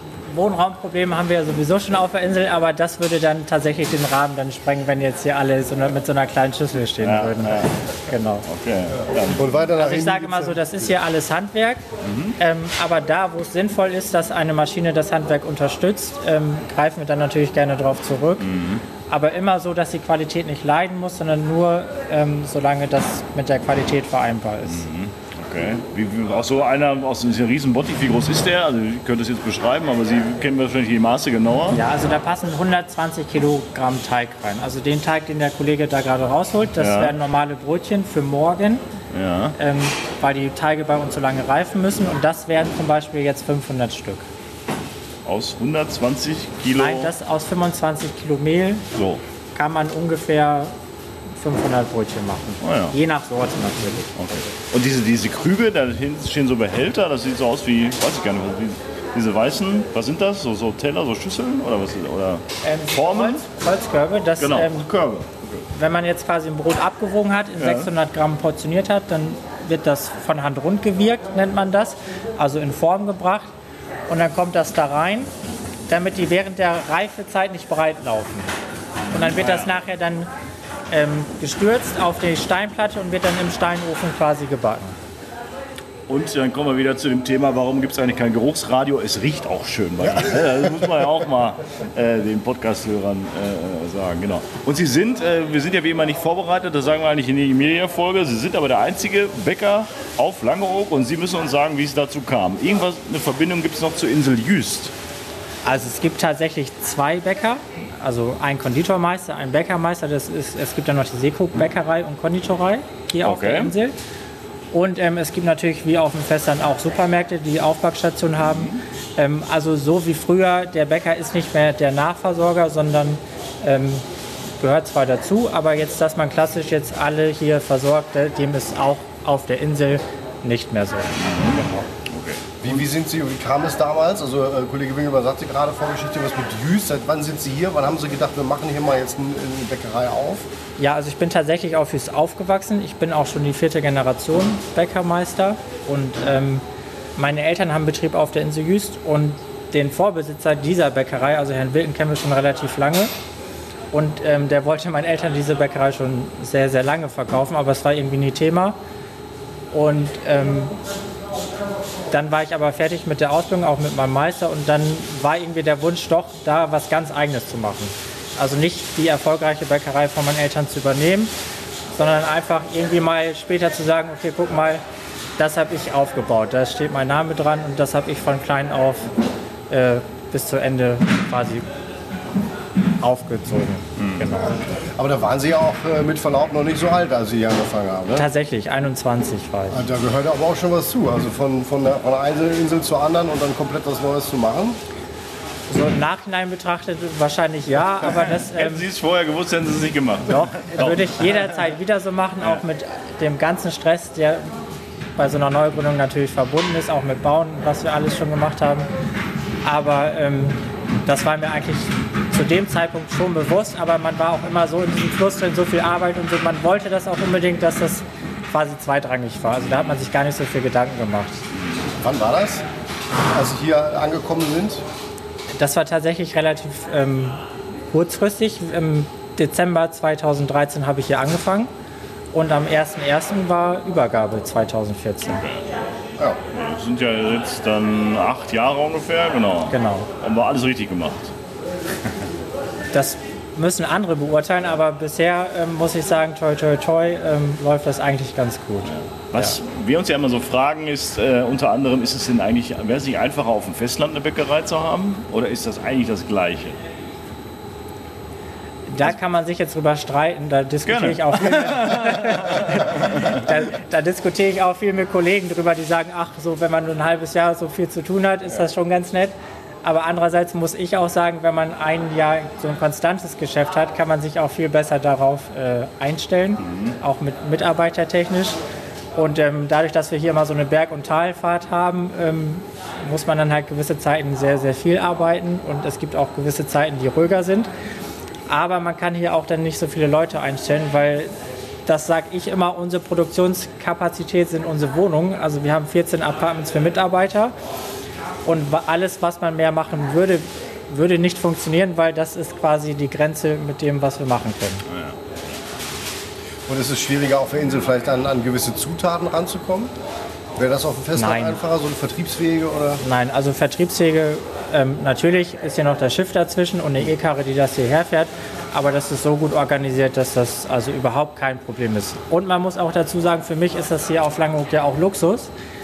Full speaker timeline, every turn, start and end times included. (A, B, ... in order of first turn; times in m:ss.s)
0:00.3-0:08.4 A
0:07.0-0:07.7 B
0:08.4-0:09.5 B
0:09.3-0:10.8 C
0:09.8-0:11.8 A
0:12.0-0:12.4 B
0:12.4-0:18.5 A
0:18.4-0:18.8 B
0:19.1-0:24.8 A
0:24.6-0:31.8 B
0:31.7-0:38.8 A
0:36.8-0:37.1 B
0:39.1-0:39.6 B
0:39.6-0:44.2 A
0:45.2-0:47.1 B
0:46.8-0:48.9 A
0:48.9-0:49.2 B
0:49.6-0:50.7 A
0:51.4-0:54.1 A
0:52.6-0:53.0 B
0:54.1-1:03.4 B
1:02.6-1:04.9 A
1:04.4-1:05.6 B
1:05.7-1:13.5 A
1:07.6-1:07.9 B
1:14.1-1:15.3 A
1:15.9-1:18.5 A
1:19.1-1:19.7 B
1:19.1-1:20.3 A
1:20.9-1:25.0 A
1:26.1-1:44.9 B
1:45.6-1:53.9 A
1:53.2-1:53.7 B
1:54.7-2:04.0 A
1:58.4-1:58.8 B
2:04.6-2:11.8 A
2:11.2-2:12.5 B
2:12.6-2:20.5 C
2:20.8-2:26.6 A
2:27.2-2:33.1 A
2:33.9-2:38.8 A
2:39.7-2:40.7 A
2:42.1-2:51.3 A
2:51.9-2:54.8 A
2:55.4-2:59.1 A
2:59.7-3:01.6 A
3:03.0-3:04.6 A
3:04.0-3:04.4 B
3:05.0-3:08.2 C
3:08.1-3:09.9 A
3:09.7-3:14.8 C
3:15.7-3:18.9 A
3:18.1-3:21.6 B
3:20.3-3:24.5 A
3:25.2-3:28.9 A
3:29.6-3:41.4 A
3:41.5-3:41.8 B
3:42.0-3:42.6 C
3:43.3-3:44.8 C
3:45.5-3:47.4 A
3:47.9-3:51.7 A
3:52.3-3:55.4 A
3:55.3-3:55.6 B
3:56.5-4:01.3 B
3:59.7-4:00.1 A
4:02.9-4:09.5 A
4:08.9-4:16.8 B
4:18.9-4:38.6 A
4:20.8-4:23.4 B
4:36.6-4:37.0 B
4:39.1-4:47.7 A
4:48.5-4:51.3 A
4:51.8-4:57.5 A
4:58.4-5:04.8 A
5:04.9-5:05.2 B
5:06.7-5:09.9 C
5:10.6-5:13.0 C
5:11.1-5:11.6 A
5:13.0-5:25.5 A